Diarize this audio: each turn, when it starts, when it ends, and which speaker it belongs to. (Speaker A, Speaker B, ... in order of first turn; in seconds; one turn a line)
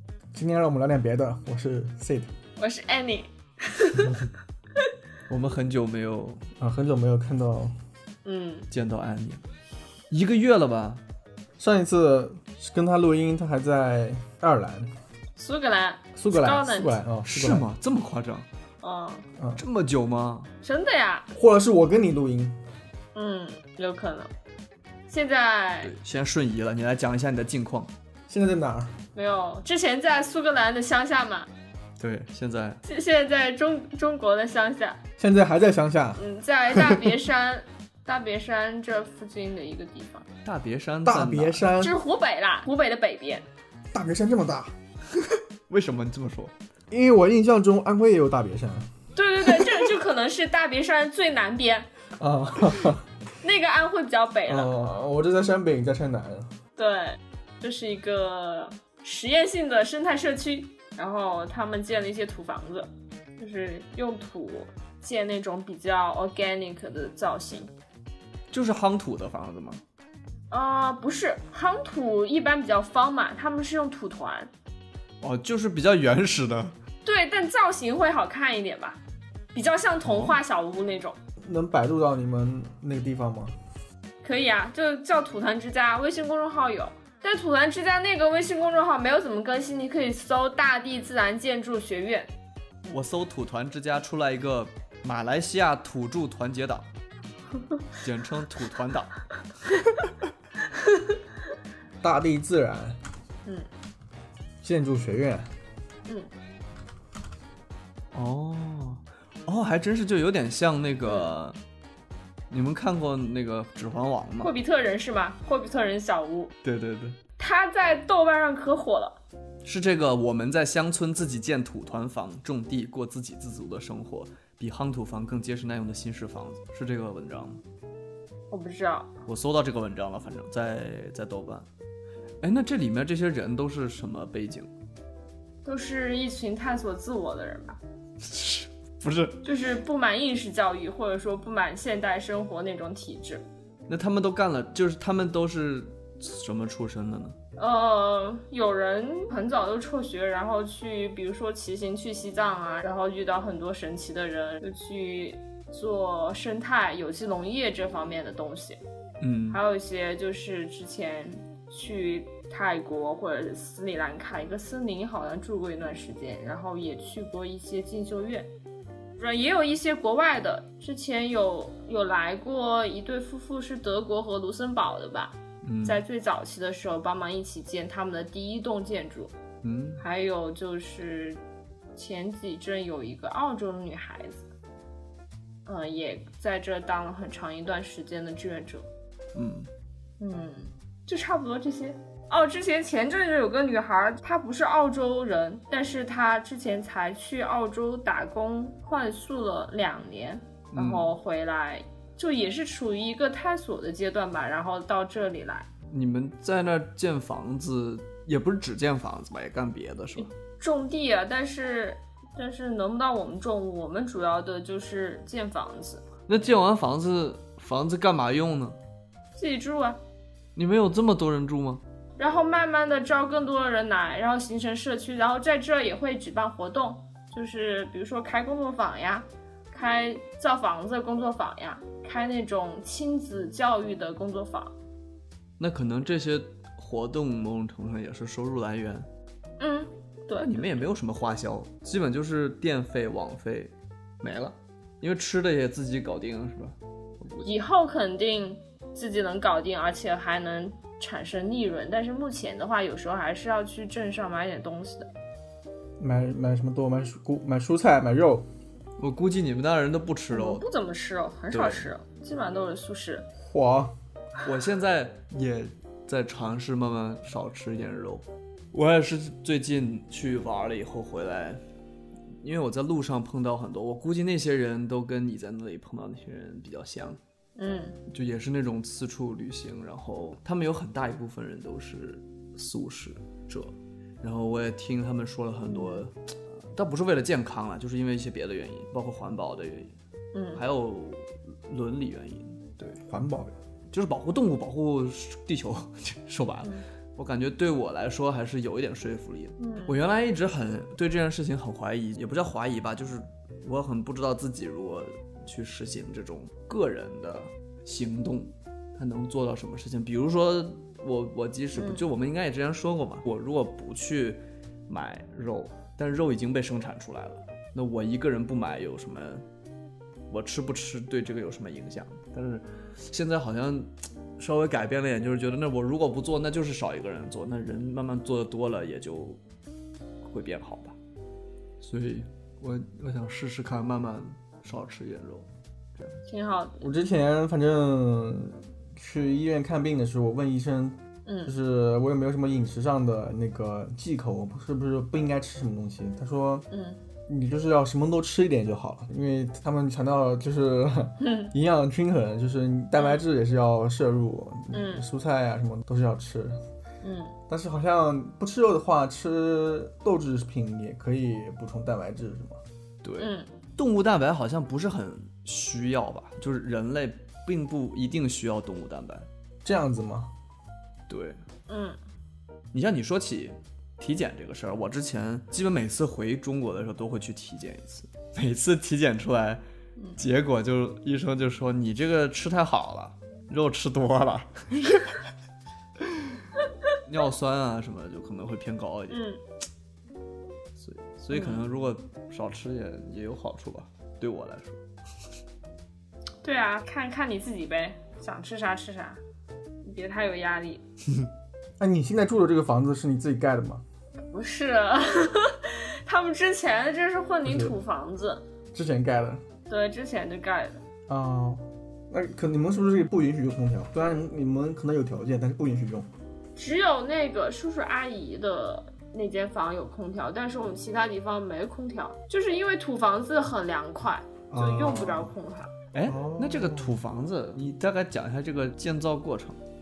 Speaker A: 0.3-2.3
Speaker B: 2.6-4.2
Speaker C: 5.3-6.5
Speaker A: 6.6-7.7
Speaker B: 8.2-8.7
Speaker C: 8.7-9.4
Speaker C: 10.1-11.0
Speaker A: 11.6-14.9
Speaker B: 15.3-17.0
Speaker A: 16.1-17.6
Speaker C: 17.2-18.5
Speaker B: 18.8-19.3
Speaker A: 19.4-19.6
Speaker C: 19.6-20.5
Speaker B: 20.6-21.3
Speaker A: 21.3-22.6
Speaker B: 23.1-24.3
Speaker B: 25.1-25.9
Speaker C: 25.8-27.9
Speaker A: 28.3-28.9
Speaker B: 29.1-31.5
Speaker C: 32.0-32.8
Speaker B: 32.8-35.0
Speaker A: 35.2-37.0
Speaker B: 36.2-40.3
Speaker C: 40.4-41.6
Speaker A: 41.0-42.0
Speaker B: 41.8-43.5
Speaker A: 43.9-44.7
Speaker C: 45.7-46.5
Speaker A: 46.9-48.9
Speaker B: 49.1-51.9
Speaker A: 52.2-53.0
Speaker B: 53.4-54.7
Speaker A: 54.5-56.5
Speaker B: 56.8-67.7
Speaker C: 68.5-69.8
Speaker B: 70.5-74.5
Speaker C: 75.2-76.7
Speaker B: 77.0-79.0
Speaker B: 79.5-81.2
Speaker C: 80.1-80.3
Speaker A: 81.4-83.5
Speaker B: 84.2-92.3
Speaker C: 92.9-96.9
Speaker C: 98.0-99.1
Speaker A: 102.0-103.0
Speaker A: 104.6-105.5
Speaker C: 108.1-111.6
Speaker B: 111.1-111.3
Speaker C: 112.5-114.5
Speaker B: 114.4-116.5
Speaker C: 116.6-117.2
Speaker B: 117.4-119.2
Speaker C: 119.6-127.6
Speaker B: 128.5-129.1
Speaker C: 129.2-131.7
Speaker C: 132.4-134.7
Speaker B: 135.6-137.8
Speaker C: 138.2-139.4
Speaker B: 139.4-143.4
Speaker C: 143.9-147.3
Speaker B: 147.6-158.8
Speaker C: 159.2-159.6
Speaker B: 159.5-168.5
Speaker B: 169.2-179.3
Speaker C: 175.6-176.0
Speaker C: 179.6-180.0
Speaker B: 180.0-181.4
Speaker B: 181.9-184.5
Speaker B: 185.7-188.8
Speaker C: 189.3-189.7
Speaker B: 190.2-205.7
Speaker C: 200.7-201.1
Speaker C: 205.9-210.3
Speaker B: 210.2-216.0
Speaker C: 216.3-218.8
Speaker B: 219.3-220.0
Speaker C: 220.6-221.8
Speaker B: 222.2-234.7
Speaker C: 235.6-239.1
Speaker B: 239.6-240.7
Speaker C: 240.4-247.5
Speaker B: 247.4-255.1
Speaker A: 256.0-258.4
Speaker C: 259.0-260.6
Speaker B: 260.3-263.3
Speaker C: 261.5-261.9
Speaker A: 263.4-263.9
Speaker C: 264.4-271.6
Speaker C: 272.4-277.2
Speaker B: 277.6-278.0
Speaker C: 278.1-289.9
Speaker B: 285.7-286.0
Speaker B: 290.3-290.6
Speaker C: 290.5-293.0
Speaker A: 293.0-293.5
Speaker C: 293.9-319.4
Speaker B: 299.6-300.0
Speaker B: 311.7-312.0
Speaker C: 320.3-329.4
Speaker C: 330.2-330.9
Speaker C: 331.8-336.2
Speaker B: 336.3-336.9
Speaker A: 336.8-346.7
Speaker B: 341.2-341.5
Speaker B: 346.7-347.0
Speaker A: 347.3-356.6
Speaker B: 351.2-351.5
Speaker B: 352.9-353.2
Speaker B: 354.7-355.0
Speaker B: 357.0-357.4
Speaker A: 357.5-362.6
Speaker C: 363.0-369.3
Speaker B: 363.2-363.5
Speaker A: 369.6-370.3
Speaker C: 371.1-371.4
Speaker B: 371.7-372.0
Speaker C: 372.7-379.6
Speaker C: 380.2-385.2
Speaker C: 386.1-386.4
Speaker C: 387.1-389.2
Speaker B: 389.1-389.4
Speaker C: 390.8-394.8
Speaker B: 391.3-391.6
Speaker B: 396.4-399.2
Speaker B: 399.8-400.8
Speaker A: 401.8-403.8
Speaker B: 404.3-408.4
Speaker A: 407.4-407.8
Speaker A: 408.7-409.4
Speaker B: 409.7-410.8
Speaker A: 411.1-416.1
Speaker B: 416.6-425.7
Speaker A: 424.5-425.3
Speaker C: 425.9-429.6
Speaker A: 426.1-426.9